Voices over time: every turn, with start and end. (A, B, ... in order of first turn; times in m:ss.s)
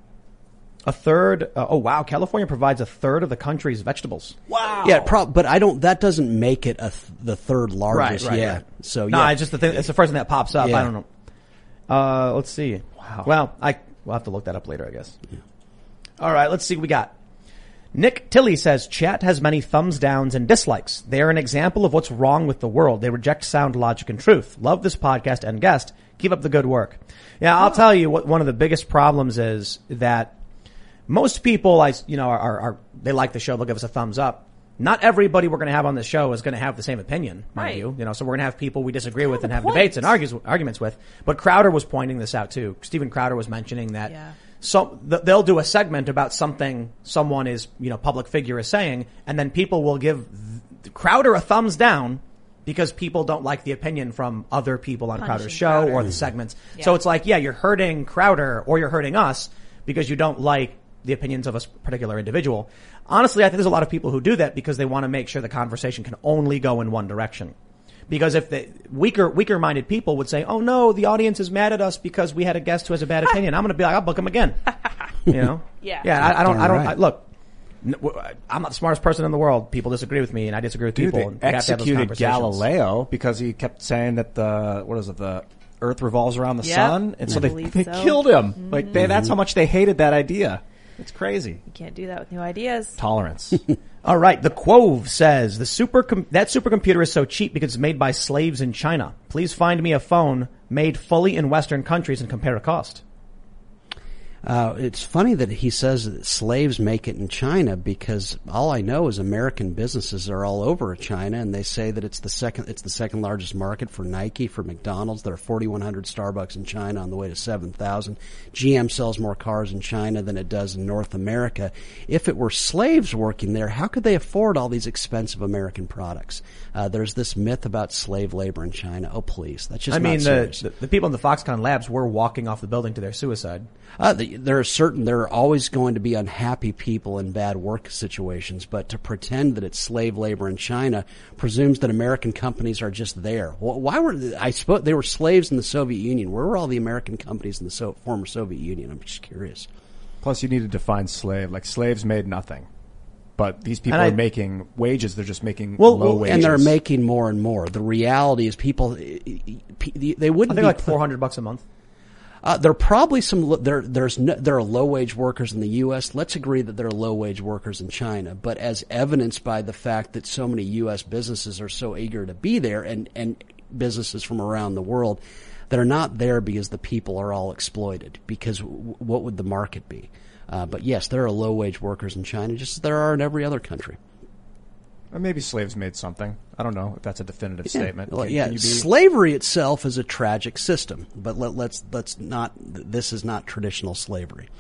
0:00.8-0:04.4 A
0:04.5-0:05.1 B
0:04.8-0:09.4 C
0:07.9-0:11.1 A
0:10.6-0:10.9 C
0:11.9-0:15.2 A
0:13.0-0:13.3 B
0:16.2-0:17.1 A
0:17.9-0:30.3 A
0:31.1-1:07.5 A
0:37.6-0:37.8 D
0:39.4-0:40.0 D
0:55.2-0:56.1 D
1:08.1-1:14.6 A
1:15.1-1:17.2 A
1:15.8-1:16.1 D
1:16.2-1:17.0 C
1:17.8-1:22.6 A
1:20.9-1:31.6 B
1:26.6-1:29.0 D
1:29.0-1:29.3 C
1:31.6-1:33.0 D
1:33.0-1:33.6 B
1:34.0-1:43.0 A
1:44.4-2:10.6 C
2:09.9-2:13.7 A
2:14.0-2:29.7 C
2:30.2-2:32.7 B
2:33.4-2:36.7 B
2:33.9-2:34.2 A
2:35.8-2:36.5 A
2:36.2-2:41.0 C
2:40.5-2:41.6 A
2:42.4-3:04.0 C
3:05.1-3:08.9 B
3:07.7-3:14.5 C